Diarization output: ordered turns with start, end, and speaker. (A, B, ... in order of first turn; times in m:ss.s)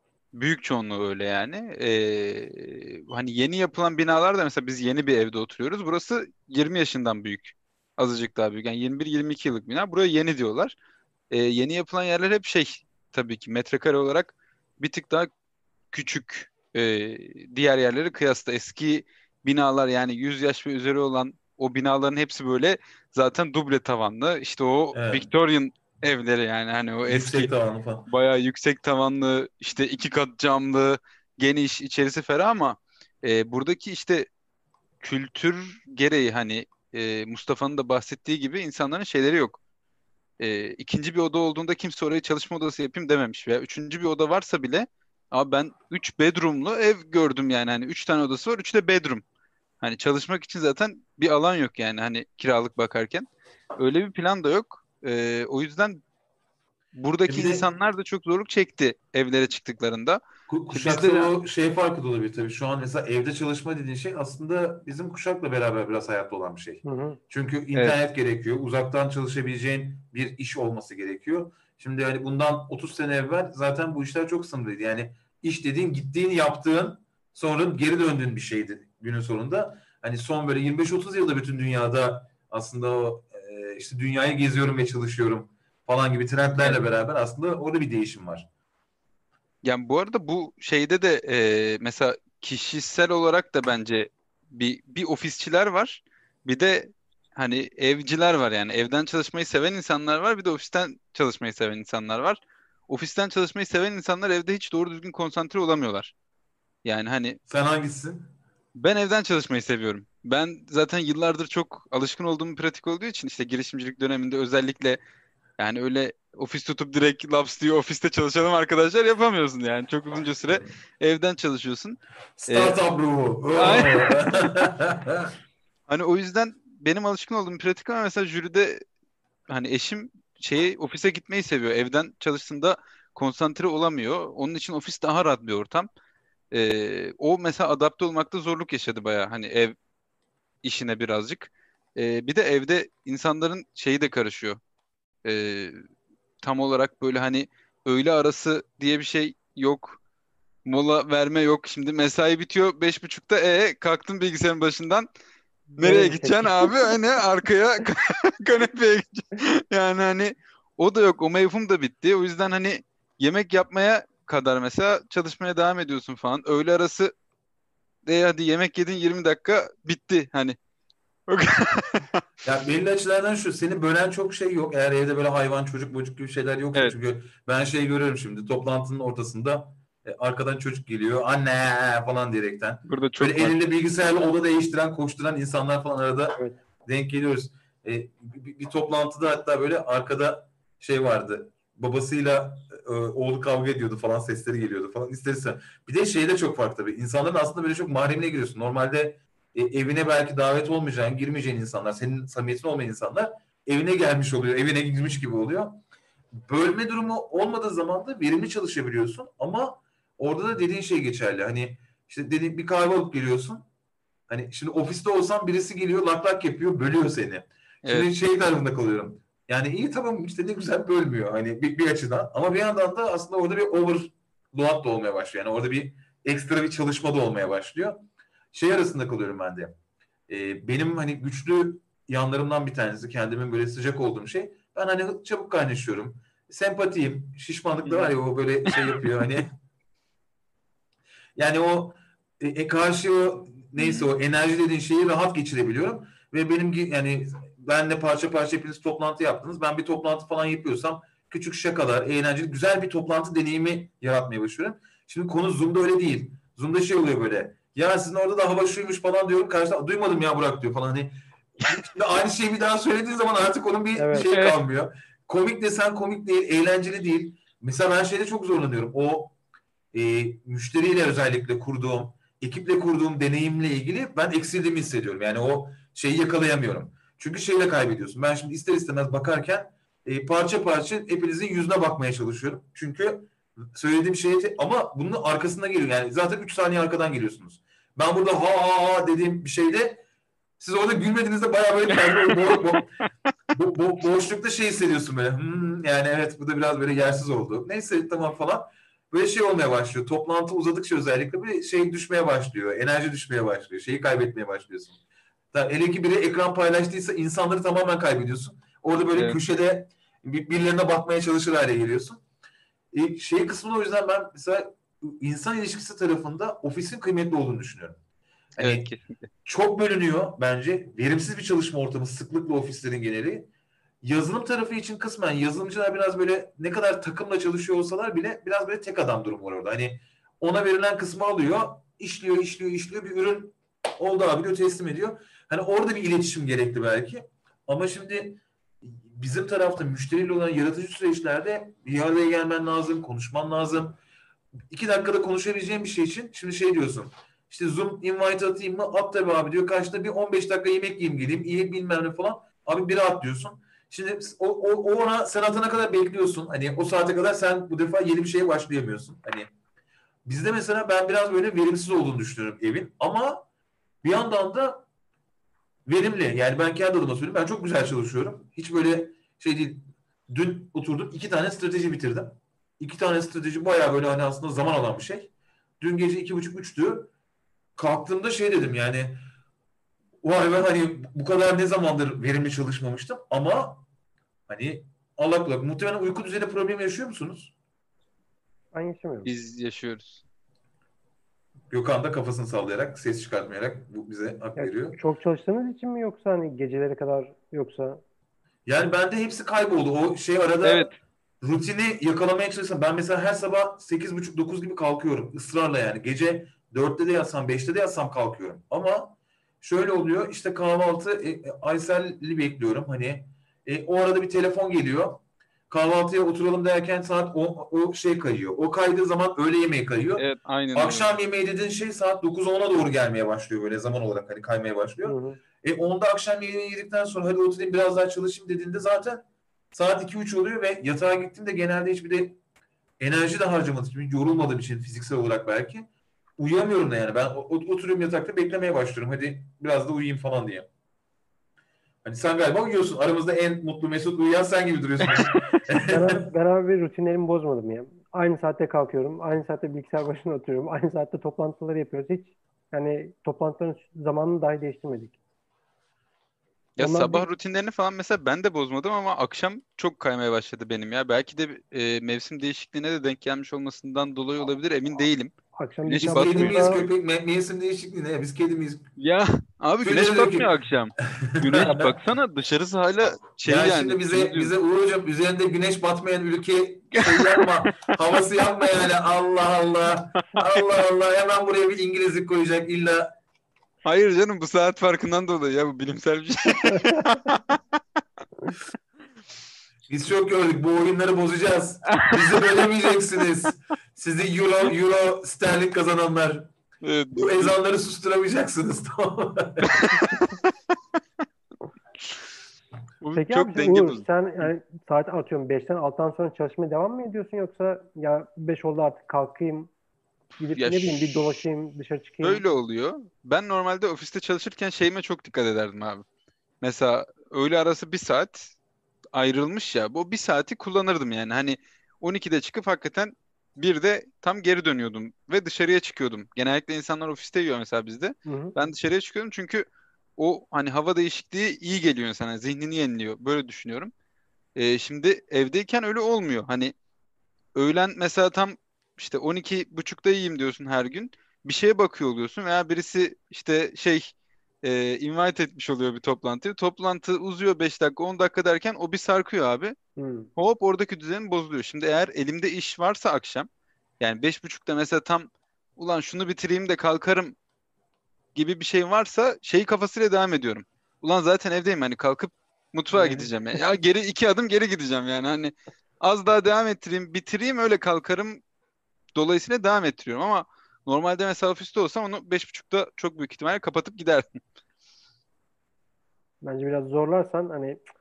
0:00.3-0:10.8 A
0:11.3-0:15.3 A
0:15.9-0:27.5 A
0:24.9-0:25.3 B
0:27.1-0:28.1 B
0:28.1-0:34.3 A
0:35.0-0:39.6 A
0:40.4-0:49.2 A
0:49.8-0:56.0 A
0:56.9-1:01.3 A
0:57.3-0:57.6 B
1:00.5-1:28.5 B
1:06.8-1:07.2 C
1:29.6-1:46.1 A
1:46.8-1:47.4 A
1:47.5-1:48.3 B
1:48.8-1:55.0 A
1:55.6-2:02.8 A
2:02.4-2:05.3 B
2:03.6-2:04.2 A
2:05.9-2:08.8 A
2:09.5-2:15.9 A
2:16.5-2:19.8 A
2:20.6-2:24.6 A
2:25.2-2:25.8 A
2:26.4-2:30.0 A
2:30.7-2:35.1 A
2:35.7-2:37.0 C
2:35.8-2:47.1 A
2:48.1-2:50.6 A
2:51.3-2:52.2 A
2:52.4-3:25.8 B
3:02.9-3:03.6 A
3:26.4-3:33.6 B
3:34.3-3:49.8 B
3:50.3-3:59.6 B
3:57.8-3:58.1 A
4:01.4-4:29.4 B
4:03.8-4:04.1 A
4:24.0-4:24.3 C
4:24.3-4:24.6 A
4:29.9-4:50.0 B
4:50.6-4:52.9 B
4:52.1-4:52.6 A
4:53.5-5:05.0 B
5:05.5-5:12.2 B
5:12.9-5:18.0 B
5:18.6-5:18.9 B
5:18.6-5:19.3 A
5:19.4-5:23.5 B
5:24.0-5:44.0 B
5:44.7-5:59.5 B
6:00.3-6:03.4 B
6:04.0-6:04.8 B
6:05.9-6:17.1 B
6:17.8-6:19.2 B
6:20.2-6:23.8 B
6:24.5-6:27.5 B
6:28.7-6:29.3 C
6:29.2-6:30.2 A
6:31.7-6:35.0 B
6:34.6-6:38.0 C
6:38.7-6:40.9 B
6:40.6-6:40.9 A
6:41.4-7:12.4 B
7:00.2-7:01.1 A
7:05.0-7:05.4 C
7:13.0-7:20.7 B
7:22.0-7:26.2 B
7:25.9-7:35.2 C
7:36.8-7:45.3 A
7:36.8-7:37.3 C
7:45.6-7:46.8 C
7:45.9-7:46.8 A
7:46.0-7:48.9 B
7:49.0-7:54.5 A
7:49.8-7:50.5 B
7:51.2-7:51.9 B
7:53.4-8:03.1 B
7:57.1-7:57.5 A
8:03.8-8:07.6 A
8:06.8-8:07.0 C
8:09.9-8:16.5 B
8:11.9-8:12.4 A
8:16.8-8:17.6 A
8:17.1-8:19.9 B
8:19.7-8:20.3 A
8:23.0-8:24.0 A
8:23.1-8:29.7 C
8:30.4-8:32.4 C
8:30.6-8:31.4 A
8:32.2-8:36.0 A
8:36.6-8:38.5 A
8:39.1-8:49.7 A
8:48.3-8:48.6 C
8:50.2-8:53.9 A
8:54.6-8:56.8 A
8:57.6-9:09.8 A
9:10.0-9:10.3 C
9:10.4-9:13.5 A
9:14.0-9:17.4 A
9:18.4-9:28.4 A
9:22.9-9:23.3 C
9:29.2-9:34.4 A
9:36.4-9:37.8 C